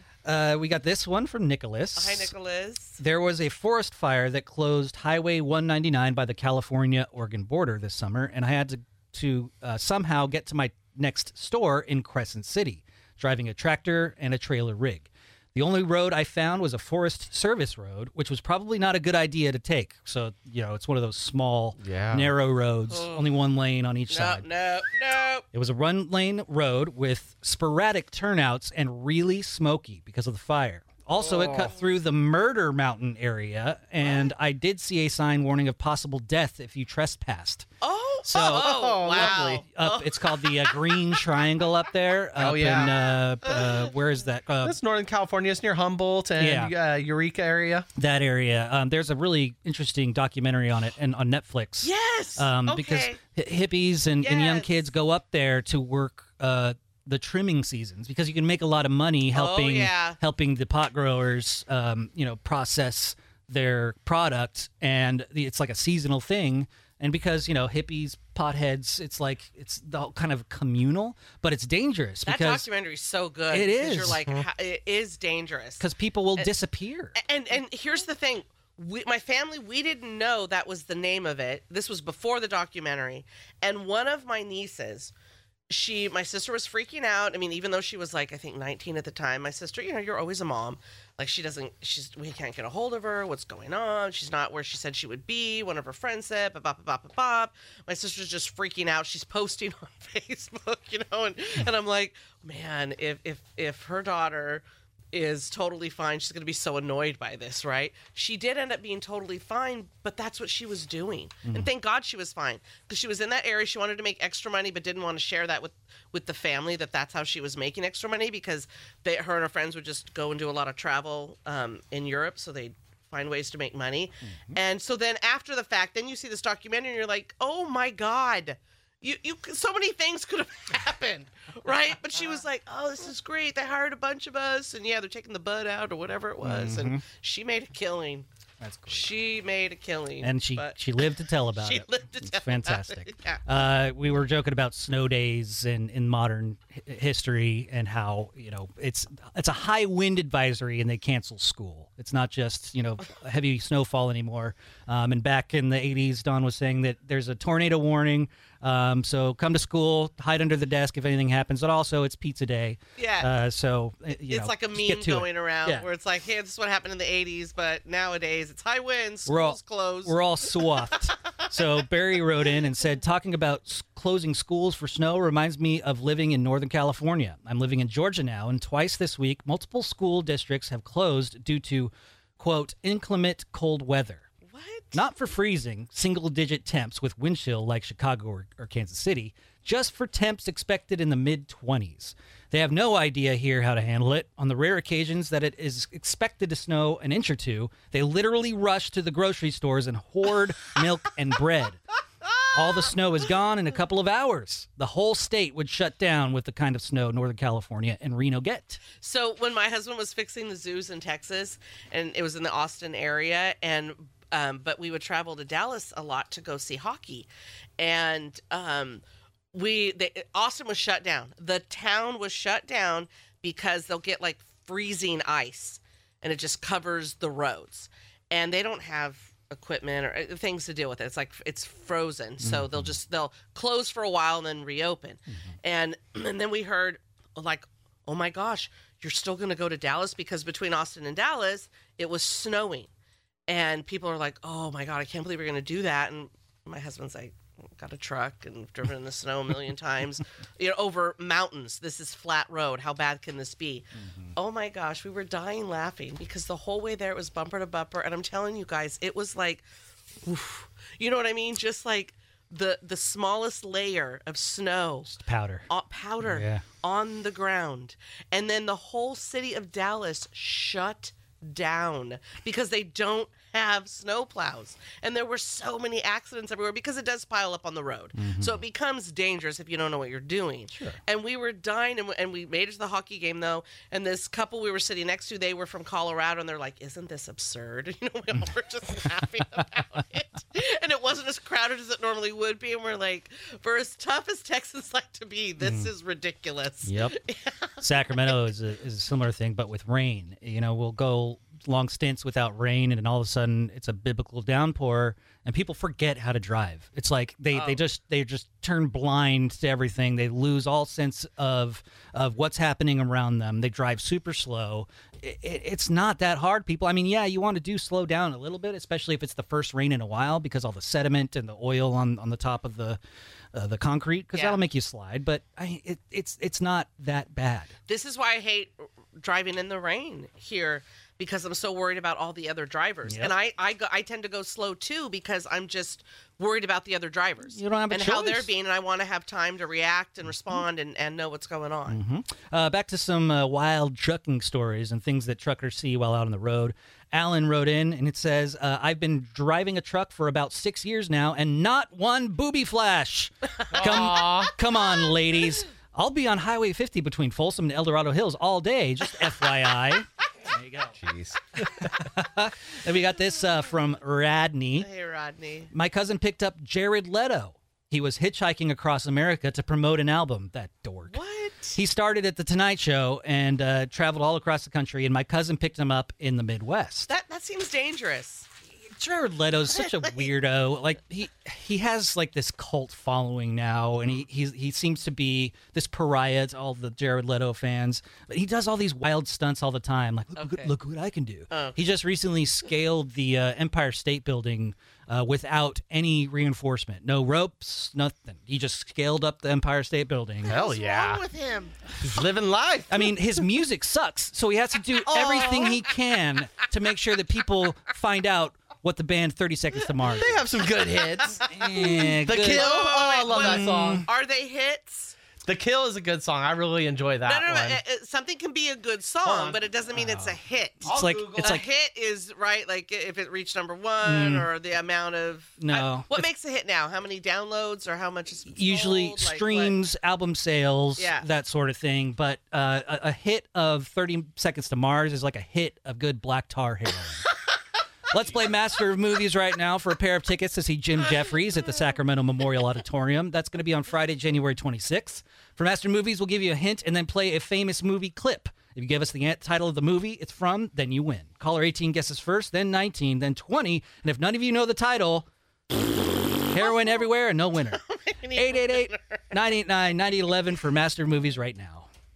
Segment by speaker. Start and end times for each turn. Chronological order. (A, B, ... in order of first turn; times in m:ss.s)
0:00.2-0:02.3 A
0:02.0-0:03.0 B
0:03.0-0:24.4 A
0:21.8-0:22.3 C
0:22.9-0:23.3 B
0:24.1-0:25.5 B
0:25.5-0:37.7 A
0:31.2-0:31.7 C
0:37.8-0:40.9 B
0:38.2-0:44.8 A
0:38.5-0:39.6 C
0:42.4-0:43.1 C
0:43.4-0:43.9 B
0:44.6-0:47.9 C
0:46.4-0:46.7 A
0:48.0-1:12.7 A
0:51.8-0:53.2 B
0:54.2-0:54.8 B
0:59.3-1:00.2 B
1:12.2-1:15.9 B
1:13.5-1:14.2 A
1:15.8-1:17.2 A
1:17.2-1:25.1 B
1:25.7-2:18.3 B
2:16.4-2:17.0 A
2:18.6-2:19.2 A
2:18.9-2:23.4 B
2:20.2-2:45.9 A
2:43.0-2:43.3 B
2:44.3-2:50.8 B
2:49.3-3:04.3 A
3:04.5-3:05.0 B
3:04.9-3:21.8 A
3:22.5-3:28.8 A
3:29.0-3:37.3 B
3:37.8-4:02.9 B
3:52.4-3:53.0 A
4:03.5-4:19.7 B
4:20.2-4:25.1 B
4:25.1-4:25.7 A
4:25.7-4:58.4 B
4:26.2-4:26.6 A
4:38.2-4:38.6 A
4:55.6-4:55.9 A
4:56.9-4:57.2 A
4:57.8-5:23.0 A
5:07.5-5:07.8 B
5:23.5-5:27.7 A
5:24.3-5:24.6 B
5:27.9-5:42.0 B
5:33.1-5:33.3 A
5:37.5-5:38.5 A
5:41.9-6:01.0 A
5:53.7-5:54.5 C
6:01.0-6:01.6 C
6:01.6-6:04.9 A
6:04.8-6:05.7 B
6:05.7-6:11.2 A
6:11.1-6:11.8 B
6:11.8-6:17.1 A
6:17.1-6:18.5 B
6:18.9-6:40.6 A
6:19.8-6:20.2 B
6:30.4-6:30.7 B
6:31.5-6:31.8 B
6:40.4-6:41.2 C
6:40.5-6:41.8 B
6:42.0-6:43.2 C
6:42.9-6:50.5 A
6:45.1-6:45.7 B
6:50.1-6:54.1 C
6:51.5-6:54.1 A
6:52.4-6:55.2 B
6:55.4-6:57.8 C
6:57.3-7:00.9 B
6:59.2-6:59.6 C
7:00.0-7:01.7 A
7:00.8-7:01.6 C
7:01.4-7:09.8 B
7:04.0-7:04.5 A
7:05.6-7:06.2 A
7:08.5-7:17.2 A
7:11.0-7:11.3 B
7:18.1-7:35.3 A
7:36.5-7:37.8 A
7:36.6-7:37.0 B
7:37.7-7:39.3 B
7:38.4-7:41.9 A